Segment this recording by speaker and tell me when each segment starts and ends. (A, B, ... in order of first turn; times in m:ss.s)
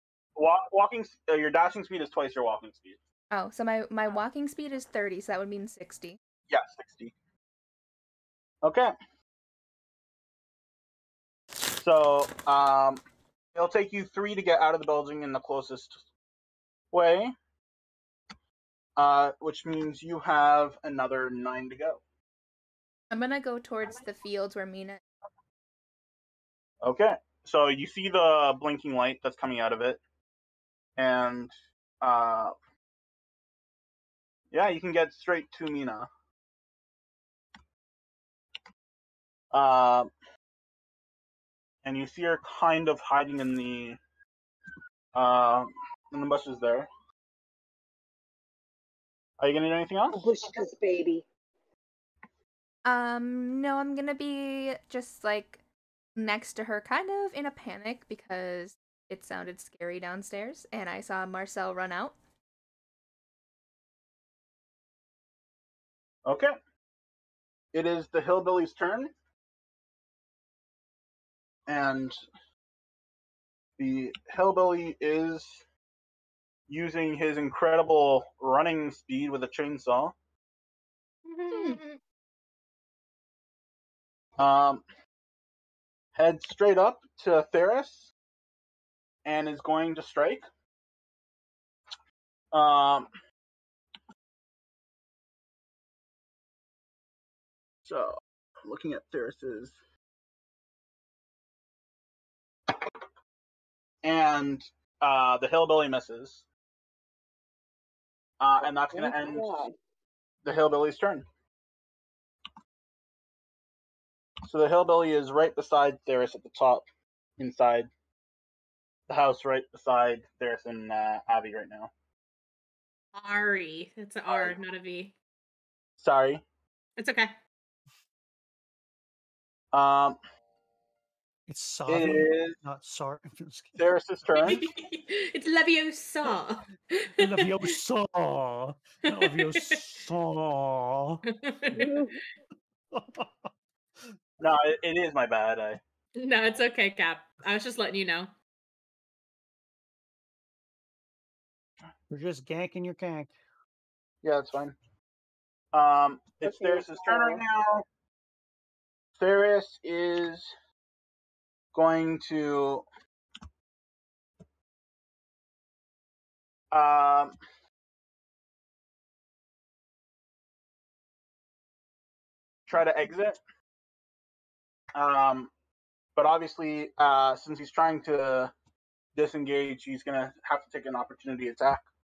0:00.4-0:03.0 A
0:03.3-0:06.2 B
0:06.5-0:07.2 A
0:08.6-0:08.9 A
0:11.8-0:13.0 A
0:13.5-0:16.1 A
0:16.9-0:17.3 A
0:19.0-0:22.0 A
0:23.1-0:25.0 B
0:26.8-0:30.0 A
0:31.0-0:32.5 A
0:34.5-0:36.1 A
0:39.5-0:40.1 A
0:41.8-0:44.0 A
0:45.1-0:46.9 A
0:49.4-0:50.2 A
0:50.1-0:51.3 C
0:52.8-0:55.6 B
0:56.2-1:02.2 B
1:06.2-1:06.5 A
1:07.7-1:09.1 A
1:11.7-1:12.2 A
1:13.8-1:15.6 A
1:16.7-1:20.1 A
1:21.3-1:22.0 D
1:24.4-1:24.8 A
1:26.2-1:28.1 A
1:29.2-1:30.4 A
1:32.5-1:33.1 A
1:37.8-1:39.8 A
1:44.0-1:46.4 A
1:48.4-1:49.6 A
1:48.9-1:49.8 C
1:50.4-1:51.3 A
1:54.4-1:56.9 A
1:57.4-1:57.9 A
1:59.1-2:01.9 A
2:03.1-2:05.1 D
2:04.3-2:04.6 A
2:06.0-2:06.4 A
2:07.0-2:07.4 D
2:09.7-2:10.2 A
2:11.5-2:13.8 E
2:11.9-2:12.6 A
2:13.8-2:14.7 A
2:14.4-2:17.7 D
2:17.2-2:21.2 E
2:19.1-2:19.8 D
2:21.3-2:22.0 D
2:21.8-2:22.2 C
2:22.9-2:24.2 E
2:24.4-2:25.8 A
2:26.2-2:28.3 D
2:32.1-2:33.3 E
2:34.2-2:34.8 A
2:35.7-2:37.8 A
2:36.4-2:37.4 C
2:39.2-2:40.5 A
2:41.7-2:42.8 A
2:46.7-2:47.4 A
2:52.7-2:53.4 A
2:55.0-2:55.5 A
2:56.2-2:58.5 A
2:59.2-3:01.8 A